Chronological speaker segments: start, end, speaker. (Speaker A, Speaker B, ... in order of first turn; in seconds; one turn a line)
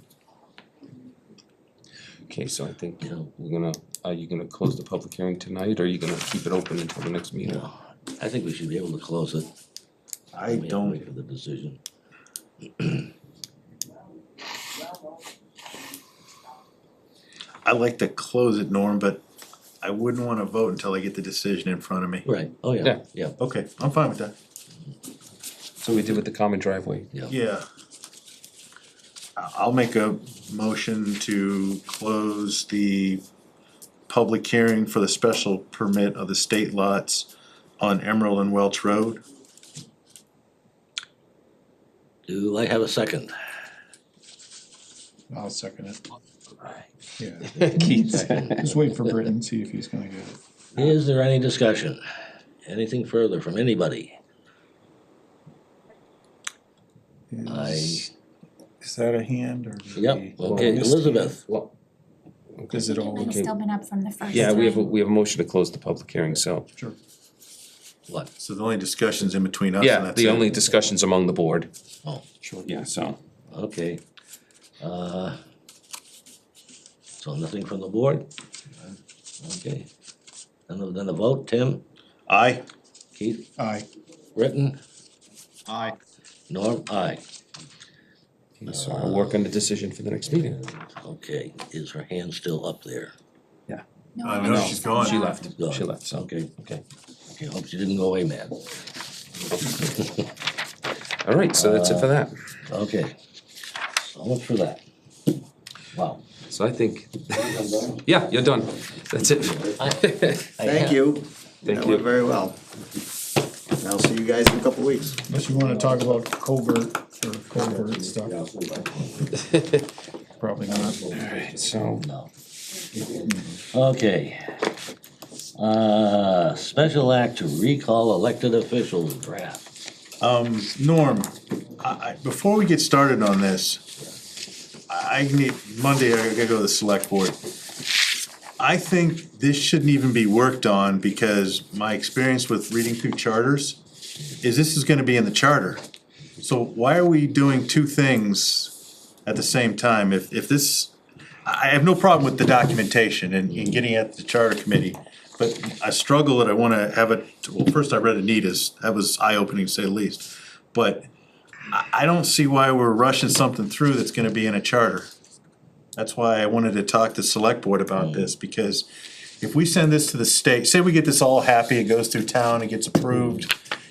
Speaker A: 2.3-7.7
Speaker B: 3.0-3.3
Speaker B: 7.4-9.5
Speaker C: 10.3-11.1
Speaker B: 10.4-11.8
Speaker B: 12.8-13.0
Speaker C: 17.6-19.2
Speaker C: 19.8-22.3
Speaker B: 22.2-23.4
Speaker A: 22.8-23.1
Speaker C: 23.4-24.3
Speaker A: 25.8-27.1
Speaker C: 27.3-27.6
Speaker C: 29.4-33.2
Speaker C: 34.1-39.2
Speaker B: 42.3-43.3
Speaker D: 45.3-46.0
Speaker D: 47.2-50.4
Speaker A: 47.5-48.7
Speaker B: 47.6-48.6
Speaker B: 50.8-52.0
Speaker B: 52.6-54.1
Speaker D: 57.3-58.1
Speaker B: 57.5-58.1
Speaker D: 58.8-61.3
Speaker B: 60.0-61.4
Speaker A: 60.4-61.7
Speaker A: 62.5-63.6
Speaker D: 62.7-63.3
Speaker E: 62.9-64.9
Speaker A: 64.3-66.7
Speaker C: 68.4-70.5
Speaker A: 69.8-71.7
Speaker D: 72.4-72.7
Speaker A: 72.7-73.2
Speaker B: 73.5-74.0
Speaker B: 74.8-75.4
Speaker B: 77.2-78.3
Speaker B: 79.4-79.9
Speaker B: 80.7-81.8
Speaker C: 82.3-82.6
Speaker B: 83.1-83.5
Speaker D: 83.6-83.9
Speaker B: 84.3-84.8
Speaker B: 86.5-87.2
Speaker A: 88.6-90.6
Speaker B: 88.7-89.4
Speaker B: 90.3-93.1
Speaker E: 94.2-95.5
Speaker C: 94.2-95.2
Speaker A: 94.4-96.8
Speaker B: 95.5-96.5
Speaker B: 97.3-98.6
Speaker A: 101.2-102.3
Speaker B: 101.5-102.1
Speaker B: 102.7-103.1
Speaker B: 104.0-104.8
Speaker B: 105.9-106.2
Speaker A: 106.5-110.5
Speaker B: 109.6-111.2
Speaker F: 110.6-112.6
Speaker A: 111.6-112.1
Speaker F: 113.8-115.2
Speaker D: 115.3-118.3
Speaker B: 118.4-119.0
Speaker A: 119.4-119.8
Speaker D: 120.4-121.0
Speaker A: 121.1-122.0
Speaker B: 122.0-122.3
Speaker D: 123.2-123.5
Speaker B: 123.7-124.6
Speaker B: 125.6-129.6
Speaker C: 130.2-133.8
Speaker C: 134.9-137.4
Speaker C: 138.6-143.8
Speaker C: 144.4-145.8
Speaker C: 146.4-150.9
Speaker C: 151.4-161.1
Speaker C: 161.7-165.1
Speaker C: 165.9-168.9
Speaker B: 167.9-168.3
Speaker C: 169.4-173.5